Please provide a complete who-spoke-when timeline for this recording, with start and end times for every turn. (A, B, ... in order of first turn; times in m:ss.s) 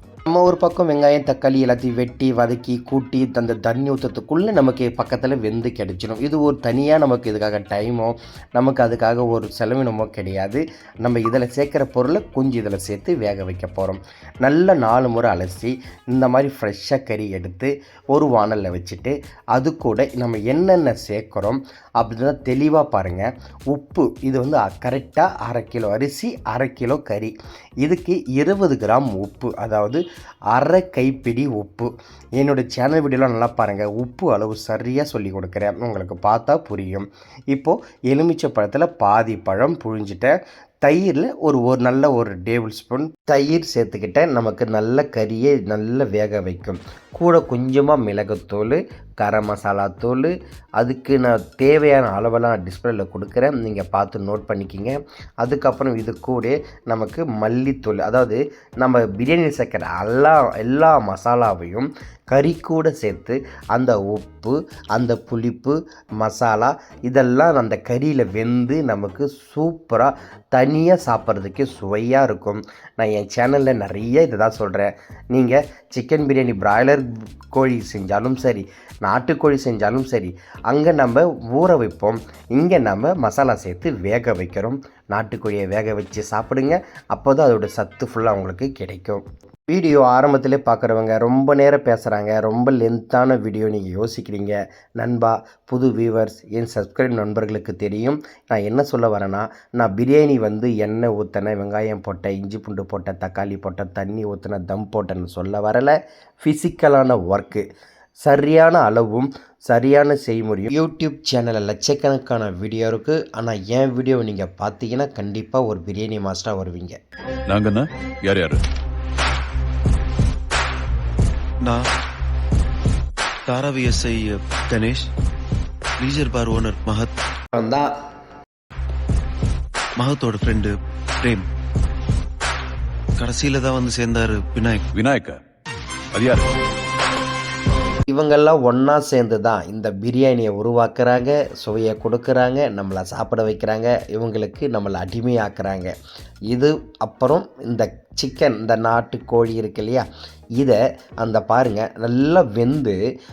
0:00.2-1:47.7 A
1:48.2-1:57.0 A
1:57.5-1:58.6 B
2:01.6-2:01.9 C
2:03.5-2:05.1 C
2:06.0-2:07.2 C
2:07.5-2:07.8 A
2:10.0-2:11.5 C
2:13.2-2:14.9 C
2:14.9-2:15.4 B
2:16.1-2:16.5 B
2:18.1-2:26.0 A
2:26.5-2:33.0 A